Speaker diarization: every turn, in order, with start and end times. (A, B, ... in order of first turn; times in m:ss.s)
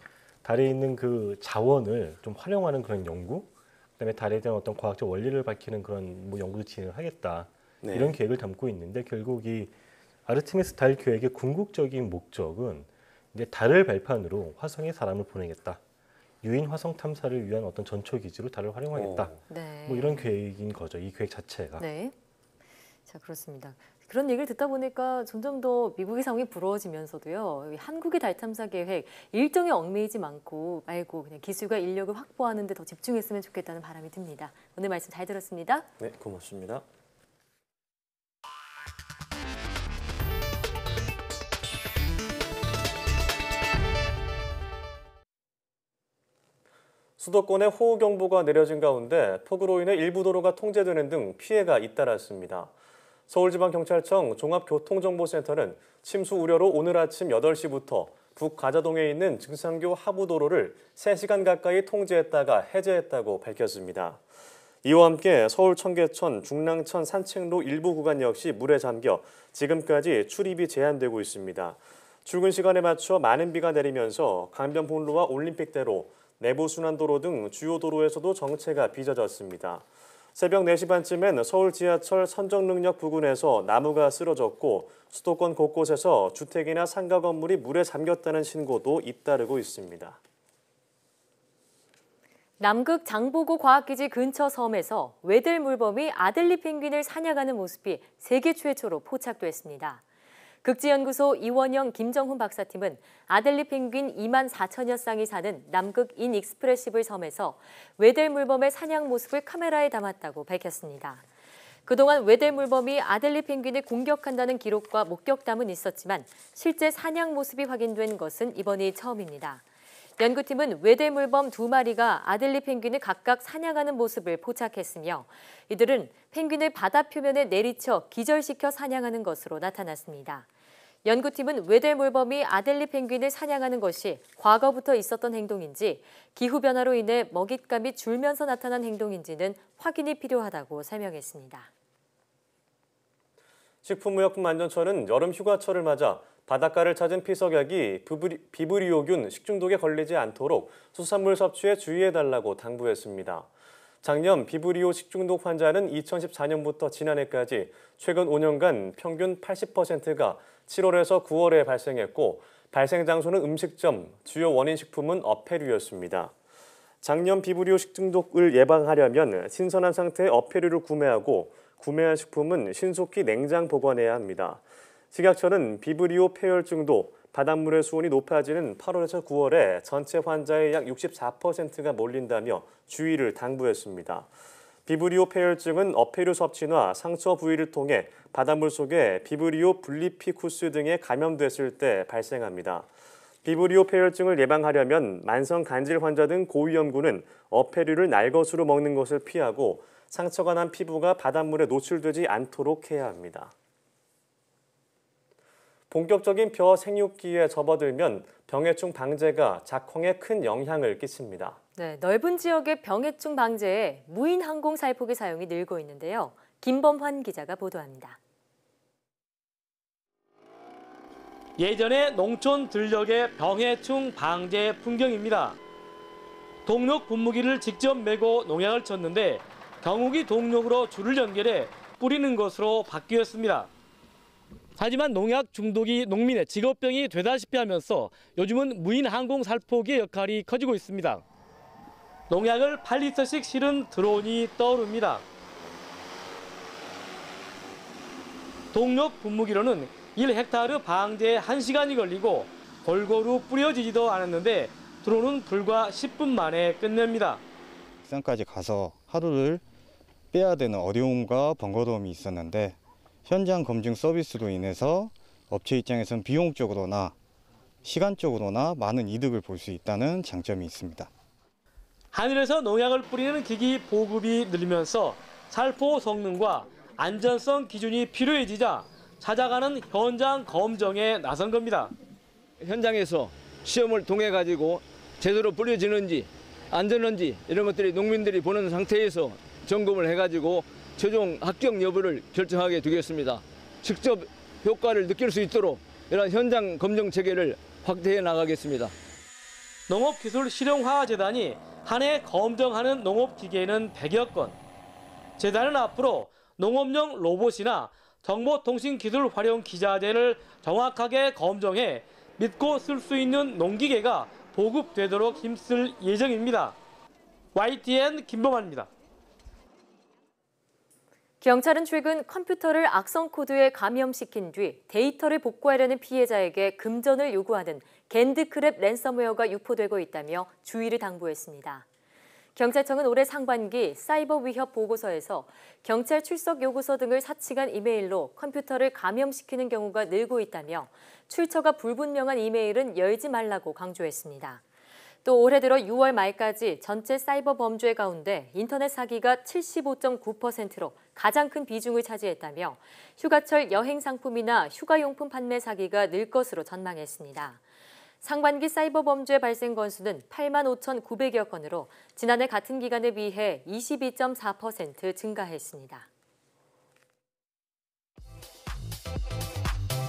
0:00.4-0:09.7 A
0:07.8-0:08.1 B
0:10.3-0:15.8 A
0:16.4-0:21.8 A
0:18.9-0:19.3 B
0:19.5-0:20.3 C
0:21.8-0:22.1 C
0:23.1-0:35.9 C
0:36.0-0:36.8 B
0:47.2-0:52.7 B
0:53.3-1:04.2 B
1:04.8-1:30.2 B
1:32.6-1:40.0 C
1:40.6-1:51.2 C
1:51.9-1:59.6 C
2:00.2-2:10.5 C
2:11.0-2:21.7 C
2:23.8-2:33.5 B
2:34.0-2:46.3 B
2:47.0-3:04.3 B
3:04.9-3:12.9 B
3:13.4-3:23.5 B
3:25.9-3:31.6 B
3:31.8-3:38.2 C
3:41.6-3:45.6 D
3:46.7-3:53.7 D
3:54.8-4:01.2 D
4:02.3-4:05.2 D
4:08.7-4:17.4 D
4:18.0-4:19.6 E
4:20.3-4:27.2 E
4:27.8-4:31.1 E
4:32.1-4:41.9 D
4:42.6-4:58.9 F
4:59.9-5:04.6 D
5:05.4-5:16.8 D
5:17.6-5:18.9 D
5:21.4-5:31.8 C
5:32.6-5:44.6 C
5:45.2-5:57.6 C
5:58.2-6:06.1 C